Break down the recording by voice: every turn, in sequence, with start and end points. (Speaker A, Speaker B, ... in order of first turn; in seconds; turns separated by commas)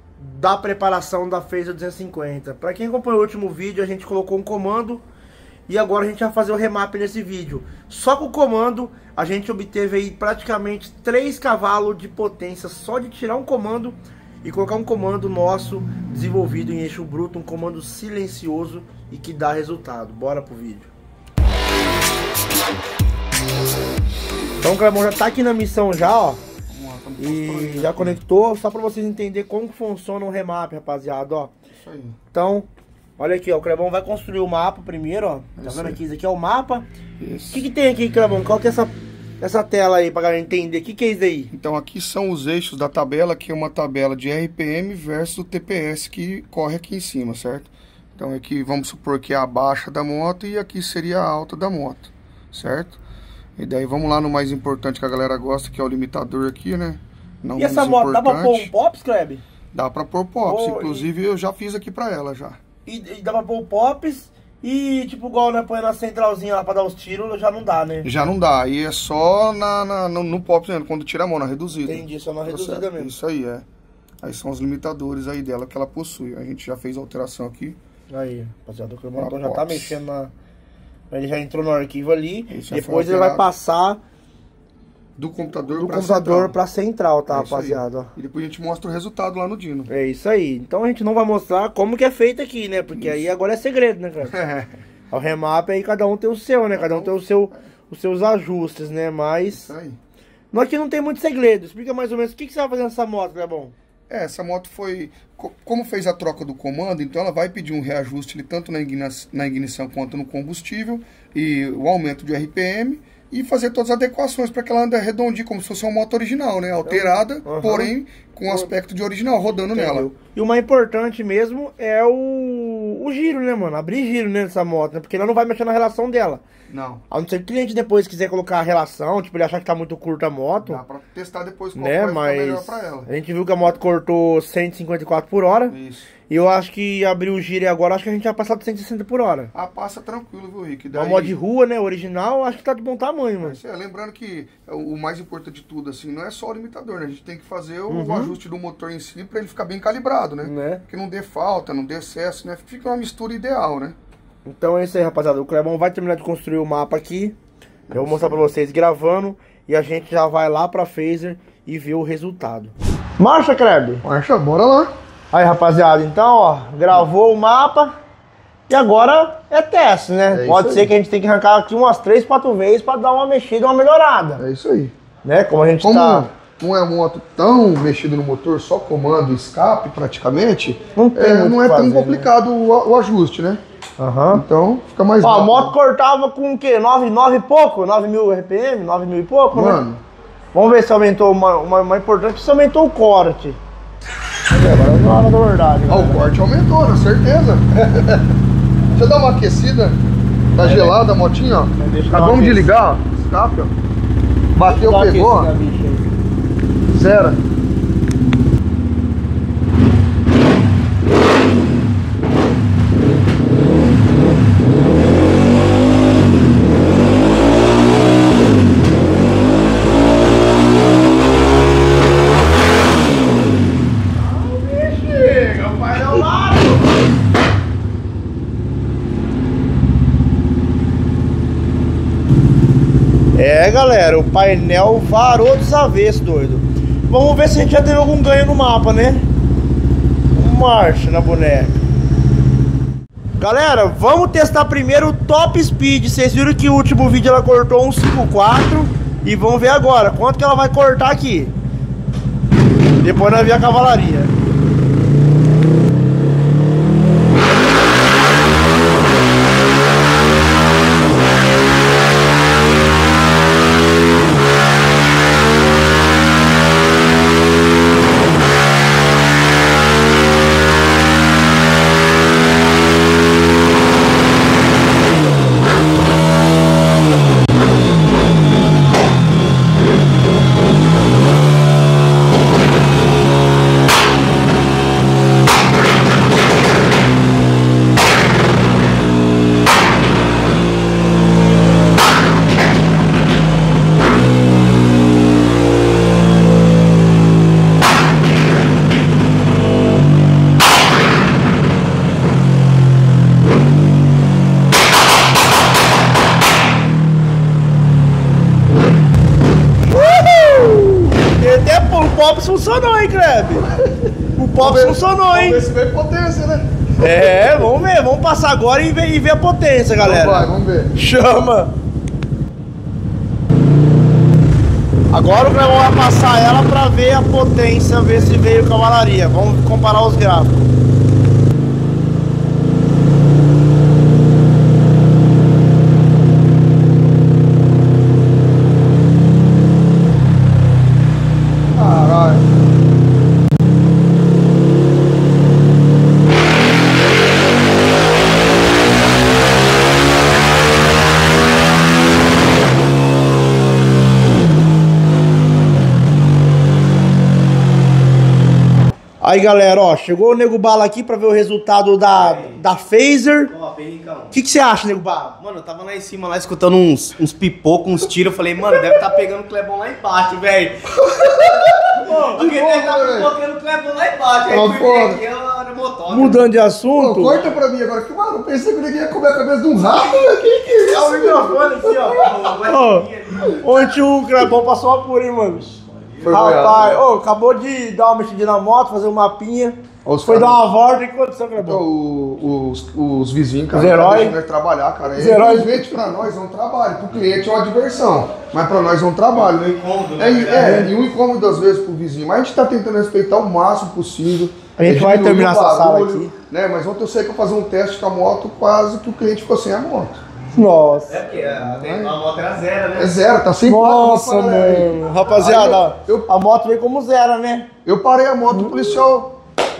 Speaker A: 0.2-5.0, Speaker A: 5.7-20.9, Speaker A: 24.6-26.4, Speaker B: 26.7-28.2, Speaker A: 27.2-31.5, Speaker B: 31.8-32.2, Speaker A: 32.3-32.7, Speaker A: 33.2-36.8, Speaker B: 35.6-36.0, Speaker B: 37.2-37.6, Speaker A: 37.5-41.5, Speaker B: 41.5-53.0, Speaker B: 53.6-58.7, Speaker A: 57.5-59.4, Speaker B: 59.7-62.6, Speaker A: 60.5-61.1, Speaker A: 62.8-68.1, Speaker B: 68.0-73.6, Speaker A: 71.8-73.1, Speaker B: 74.2-77.8, Speaker A: 78.1-80.3, Speaker B: 79.2-80.0, Speaker A: 81.1-84.0, Speaker B: 82.5-83.5, Speaker B: 85.2-86.5, Speaker A: 85.7-88.1, Speaker B: 87.3-89.9, Speaker A: 89.9-94.4, Speaker B: 93.0-93.2, Speaker B: 94.2-94.7, Speaker A: 95.1-99.7, Speaker B: 96.7-97.5, Speaker B: 99.5-100.0, Speaker A: 100.5-103.7, Speaker B: 104.1-120.1, Speaker A: 116.8-117.9, Speaker A: 119.7-126.4, Speaker B: 126.7-127.0, Speaker A: 127.1-130.8, Speaker B: 130.6-133.1, Speaker A: 131.8-135.7, Speaker B: 135.7-136.1, Speaker A: 136.3-139.5, Speaker B: 139.5-141.3, Speaker A: 140.9-143.6, Speaker B: 143.4-153.9, Speaker A: 147.9-148.3, Speaker A: 150.4-150.8, Speaker A: 154.4-157.3, Speaker B: 157.9-158.4, Speaker A: 157.9-164.0, Speaker B: 164.0-164.9, Speaker A: 165.3-167.9, Speaker A: 168.7-174.4, Speaker B: 170.3-170.9, Speaker B: 174.4-174.9, Speaker A: 175.2-176.3, Speaker B: 175.8-183.6, Speaker A: 180.9-182.3, Speaker A: 184.0-184.4, Speaker B: 184.3-185.7, Speaker A: 185.2-189.8, Speaker B: 189.5-190.0, Speaker A: 190.5-193.6, Speaker A: 194.5-196.3, Speaker B: 195.9-198.2, Speaker B: 198.9-200.0, Speaker B: 200.5-203.7, Speaker C: 200.6-200.9, Speaker A: 201.8-202.9, Speaker B: 204.5-205.5, Speaker A: 204.6-206.1, Speaker B: 206.9-207.4, Speaker A: 224.1-227.1, Speaker A: 233.3-239.3, Speaker A: 240.3-241.8, Speaker A: 243.4-251.5, Speaker A: 253.0-254.3, Speaker A: 309.9-313.7, Speaker B: 313.7-317.6, Speaker A: 314.4-315.6, Speaker A: 317.0-321.7, Speaker B: 320.0-320.9, Speaker A: 325.1-330.7, Speaker B: 341.7-342.5, Speaker A: 359.2-363.5, Speaker C: 362.1-362.6, Speaker C: 363.5-364.4, Speaker A: 364.3-365.4, Speaker C: 365.4-376.5, Speaker B: 371.0-371.8, Speaker A: 372.0-372.4, Speaker B: 372.3-373.3, Speaker B: 374.5-375.2, Speaker A: 376.1-377.5, Speaker B: 376.9-382.5, Speaker A: 380.8-385.7, Speaker C: 381.3-383.6, Speaker B: 383.4-383.9, Speaker C: 385.7-386.5, Speaker B: 386.2-387.0, Speaker A: 386.3-391.8, Speaker B: 390.0-390.6, Speaker B: 391.6-410.2, Speaker A: 393.7-394.4, Speaker A: 395.1-395.8, Speaker C: 399.3-400.9, Speaker A: 400.5-400.9, Speaker A: 404.8-406.3, Speaker A: 410.5-411.2, Speaker C: 411.1-413.2, Speaker B: 411.5-412.2, Speaker B: 412.9-416.3, Speaker A: 413.6-417.7, Speaker B: 417.8-419.4, Speaker A: 418.5-419.0